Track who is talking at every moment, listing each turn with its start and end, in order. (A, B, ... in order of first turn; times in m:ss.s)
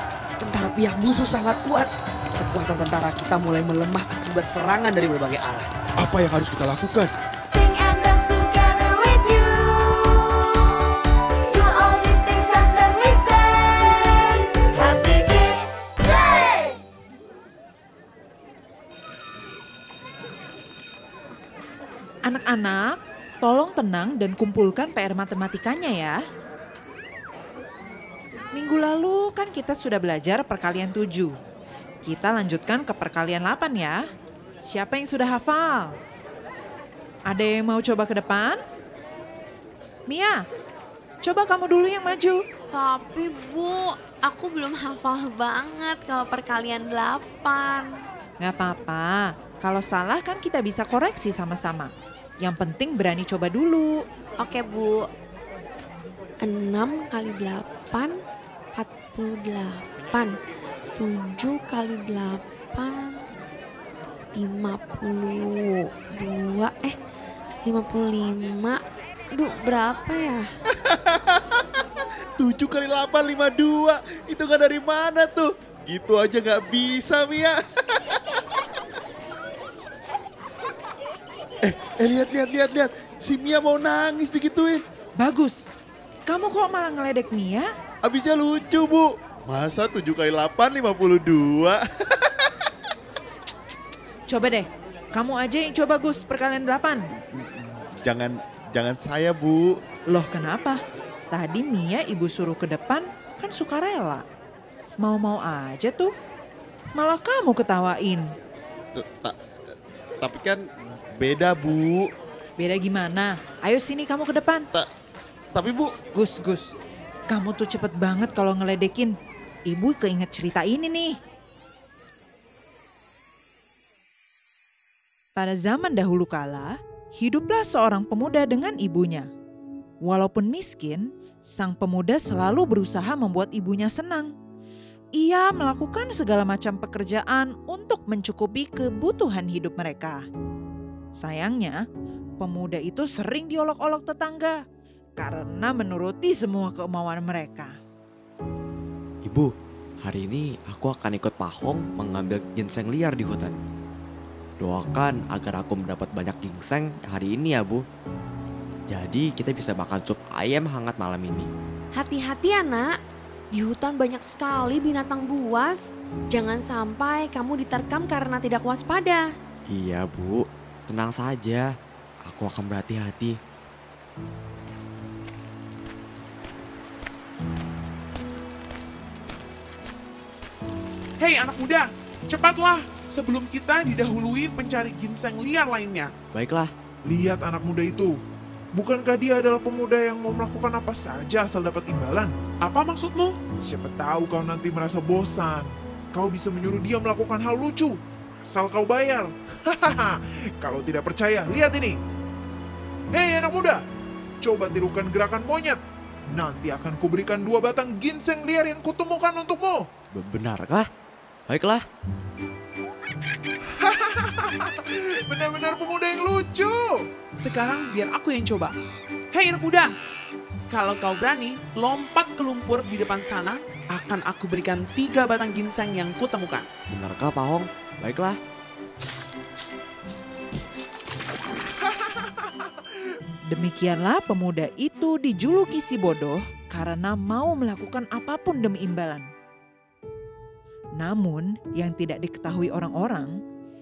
0:00.4-0:05.7 A
0:06.0-0:07.1 B
0:07.5-0:09.2 C
0:07.6-0:10.5 D
0:11.5-0:12.8 D
0:11.6-0:14.6 C
0:13.4-0:16.4 D
0:22.3-0:26.2 E
0:28.5-0:31.3 E
0:32.0-0:34.0 E
0:34.6-0:36.0 E
0:37.3-0:38.6 E
0:40.1-0:40.4 E
0:41.2-0:42.4 E
0:42.7-0:48.1 C
0:48.4-0:51.9 E
0:52.4-0:54.0 E
0:54.4-0:55.1 C
0:56.4-0:58.1 C
0:58.7-1:00.4 C
1:01.0-1:03.2 C
1:04.4-1:07.0 C
1:07.6-1:08.8 C
1:09.3-1:10.5 C
1:10.8-1:11.8 B
1:12.4-1:18.4 B
1:21.6-1:24.8 B
1:25.2-1:25.6 E
1:26.3-1:27.7 E
1:28.0-1:32.5 B
1:34.3-1:37.1 E
1:37.2-1:39.7 B
1:40.1-1:40.8 E
1:41.3-1:44.2 E
1:45.0-1:46.1 E
1:47.0-1:48.3 E
1:49.0-1:49.4 B
1:50.2-1:50.6 B
1:51.2-1:52.1 B
1:52.6-1:54.6 E
1:55.5-1:55.9 B
1:56.1-1:56.7 E
1:57.3-1:59.1 E
1:59.7-2:01.1 E
2:05.4-2:09.3 E
2:10.0-2:14.3 E
2:15.2-2:20.2 E
2:21.2-2:21.8 E
2:22.4-2:24.6 E
2:25.2-2:27.7 E
2:29.2-2:33.6 F
2:34.6-2:37.8 F
2:38.9-2:41.5 F
2:41.9-2:43.0 C
2:43.5-2:49.3 C
2:49.7-2:51.7 F
2:52.3-2:53.4 F
3:01.2-3:06.1 G
3:06.3-3:06.7 F
3:07.1-3:08.2 H
3:08.7-3:12.3 H
3:12.6-3:13.4 G
3:13.6-3:22.0 H
3:23.1-3:23.8 H
3:24.4-3:25.8 H
3:26.3-3:29.9 H
3:30.1-3:30.9 F
3:31.5-3:31.9 F
3:33.8-3:37.1 H
3:37.3-3:38.8 G
3:39.3-3:39.9 G
3:40.7-3:46.7 G
3:46.9-3:48.4 F
3:51.8-3:52.7 H
3:53.5-3:59.3 E
4:01.0-4:03.4 E